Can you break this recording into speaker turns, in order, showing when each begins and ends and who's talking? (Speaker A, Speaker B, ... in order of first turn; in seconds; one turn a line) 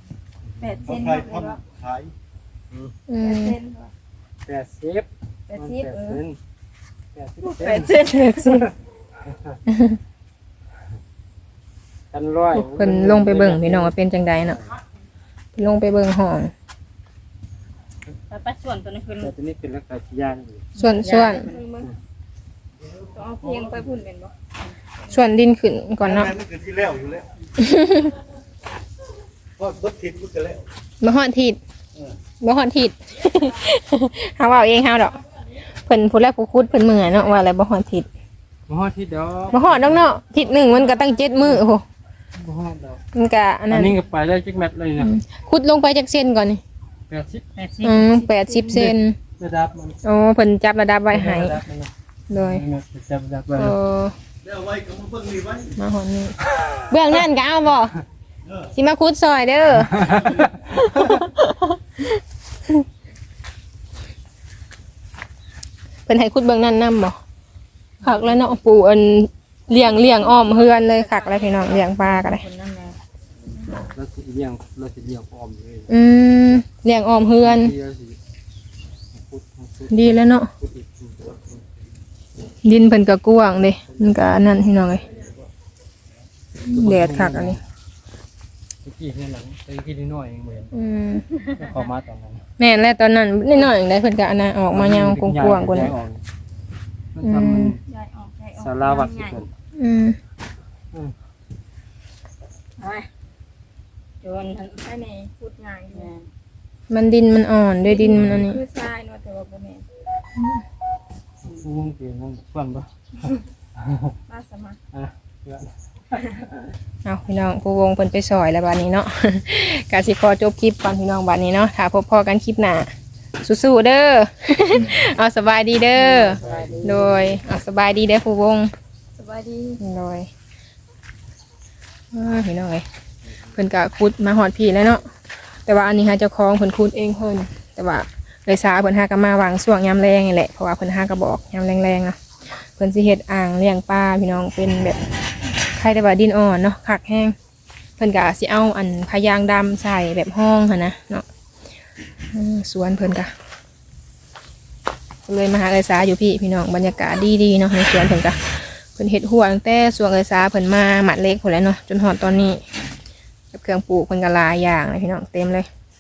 Speaker A: 0.6-1.6
Speaker B: 0.8-2.1
Speaker C: 3.1-3.6
Speaker A: 3.2-3.9
Speaker D: 4.5-6.4
Speaker A: 5.5-6.2
Speaker D: 7.1-9.6
Speaker A: 7.5-8.2
Speaker C: 8.0-8.7
Speaker C: 9.7-10.0
Speaker D: 12.1-13.9
Speaker C: 12.5-14.6
Speaker C: 15.6-16.5
Speaker E: 18.3-19.3
Speaker D: 19.2-20.7
Speaker C: 20.8-21.5
Speaker E: 20.9-21.8
Speaker A: 23.1-24.3
Speaker C: 25.1-26.4
Speaker B: 26.0-27.3
Speaker C: 27.6-28.1
Speaker B: 29.6-30.6
Speaker C: 31.0-31.6
Speaker C: 32.4-35.2
Speaker C: 35.9-38.1
Speaker D: 38.7-40.0
Speaker C: 39.5-41.8
Speaker D: 42.4-43.0
Speaker C: 43.1-44.0
Speaker D: 43.7-45.2
Speaker C: 45.0-46.6
Speaker D: 47.1-47.5
Speaker E: 47.5-48.2
Speaker C: 47.8-49.2
Speaker D: 48.7-50.0
Speaker C: 50.0-51.6
Speaker D: 51.1-53.8
Speaker C: 52.3-52.6
Speaker C: 53.6-54.1
Speaker B: 54.5-55.6
Speaker C: 55.8-56.3
Speaker C: 56.9-58.0
Speaker C: 58.7-62.1
Speaker D: 60.0-61.2
Speaker C: 66.1-67.2
Speaker C: 68.0-72.4
Speaker E: 68.0-68.4
Speaker E: 69.8-73.0
Speaker D: 73.8-76.0
Speaker C: 75.9-77.7
Speaker D: 77.4-78.2
Speaker D: 79.1-81.7
Speaker C: 79.9-80.5
Speaker C: 82.6-85.0
Speaker D: 83.9-84.4
Speaker D: 85.2-85.4
Speaker C: 86.6-87.6
Speaker D: 86.7-87.6
Speaker D: 88.8-90.7
Speaker C: 90.7-91.3
Speaker D: 91.5-92.4
Speaker C: 92.6-96.0
Speaker D: 94.7-96.2
Speaker D: 97.2-97.8
Speaker C: 97.2-97.8
Speaker E: 98.0-98.5
Speaker A: 98.1-99.2
Speaker D: 98.5-99.5
Speaker C: 99.8-100.2
Speaker E: 102.8-103.1
Speaker E: 104.2-106.3
Speaker A: 105.1-106.1
Speaker C: 106.9-108.6
Speaker D: 108.1-108.5
Speaker A: 108.5-109.8
Speaker D: 111.4-114.2
Speaker A: 114.3-114.8
Speaker E: 114.5-114.8
Speaker D: 114.9-116.7
Speaker C: 117.0-122.9
Speaker C: 123.4-128.7
Speaker D: 126.0-127.3
Speaker A: 129.2-129.8
Speaker C: 129.8-130.3
Speaker C: 132.1-132.8
Speaker C: 133.6-135.1
Speaker C: 135.7-145.0
Speaker C: 145.8-147.3
Speaker C: 148.0-151.2
Speaker C: 152.3-153.3
Speaker C: 155.3-162.6
Speaker C: 163.5-165.7